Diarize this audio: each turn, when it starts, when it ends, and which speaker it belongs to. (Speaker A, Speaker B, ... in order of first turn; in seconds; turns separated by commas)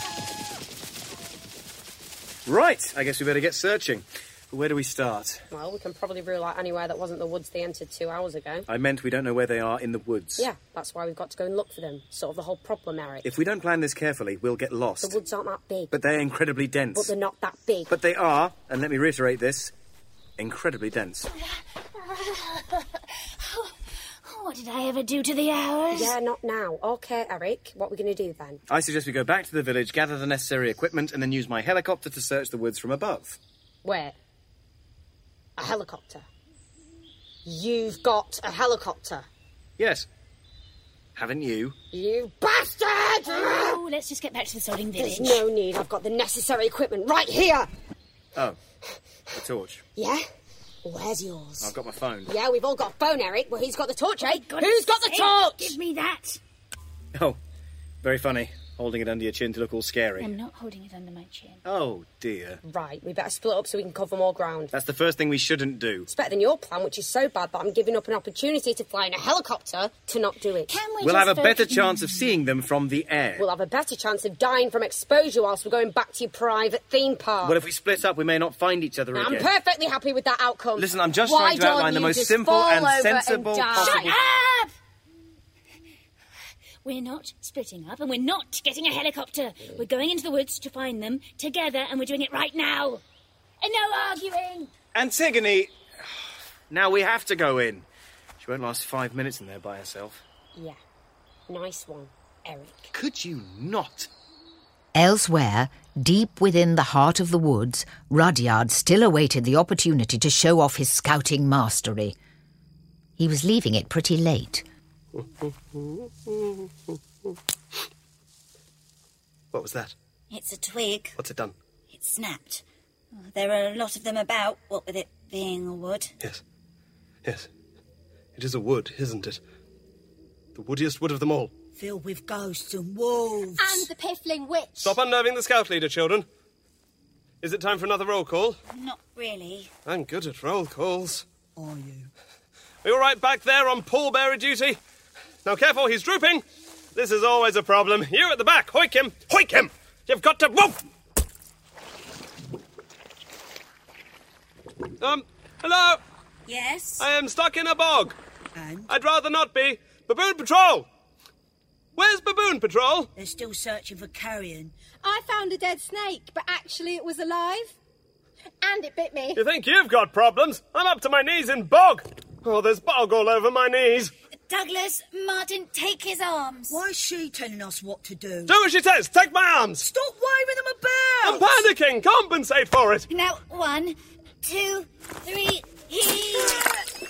Speaker A: 2.5-5.4, Speaker B: 5.5-8.7, Speaker A: 8.7-10.5, Speaker B: 10.4-13.3, Speaker A: 13.2-15.2, Speaker B: 15.0-15.9, Speaker A: 15.9-17.1, Speaker B: 16.9-17.9, Speaker A: 17.9-19.7, Speaker A: 20.4-21.3, Speaker C: 21.9-26.1, Speaker B: 25.9-28.6, Speaker A: 28.7-33.4, Speaker B: 33.8-34.2, Speaker B: 35.6-36.3, Speaker B: 37.4-39.3, Speaker A: 39.8-40.1, Speaker A: 41.1-41.8, Speaker B: 41.9-43.8, Speaker C: 43.2-45.4, Speaker B: 45.0-47.7, Speaker A: 49.3-49.8, Speaker B: 50.0-50.2, Speaker B: 50.8-51.7, Speaker A: 51.6-52.3, Speaker B: 52.2-55.8, Speaker C: 54.2-56.4, Speaker A: 57.1-57.4, Speaker A: 58.0-60.3, Speaker C: 60.2-61.6, Speaker A: 61.6-62.6, Speaker B: 62.6-64.7, Speaker A: 64.7-66.1, Speaker B: 66.1-70.7, Speaker C: 70.7-72.3, Speaker A: 71.0-73.5, Speaker B: 73.4-77.6, Speaker A: 77.4-79.5, Speaker B: 79.1-84.1, Speaker A: 80.8-84.1, Speaker C: 83.7-84.7, Speaker C: 86.8-93.0, Speaker C: 93.6-94.7, Speaker A: 94.9-97.9, Speaker A: 98.4-100.2, Speaker B: 101.5-102.9, Speaker A: 102.9-104.1, Speaker D: 104.9-112.1, Speaker D: 113.2-114.6, Speaker E: 115.1-117.3, Speaker E: 119.5-119.9, Speaker F: 120.3-121.2, Speaker E: 121.2-121.5, Speaker F: 121.9-122.6, Speaker F: 123.3-126.1, Speaker E: 128.3-129.4, Speaker E: 130.5-131.5, Speaker G: 131.8-133.9, Speaker H: 133.6-135.0, Speaker E: 134.8-136.2, Speaker E: 137.4-138.6, Speaker F: 138.7-139.7, Speaker E: 139.8-141.2, Speaker G: 141.6-142.1, Speaker E: 142.8-144.8, Speaker E: 145.4-146.4, Speaker E: 146.9-150.8, Speaker E: 155.0-156.0, Speaker F: 156.5-157.1, Speaker E: 157.0-158.2, Speaker G: 158.6-158.9, Speaker E: 158.9-160.9, Speaker E: 162.0-163.1, Speaker G: 163.2-164.7, Speaker H: 165.0-167.8, Speaker H: 168.6-169.4, Speaker E: 169.3-174.1, Speaker F: 174.5-176.8, Speaker G: 176.7-178.6, Speaker E: 178.5-179.8, Speaker G: 179.8-181.7, Speaker E: 181.2-183.1, Speaker F: 183.1-186.7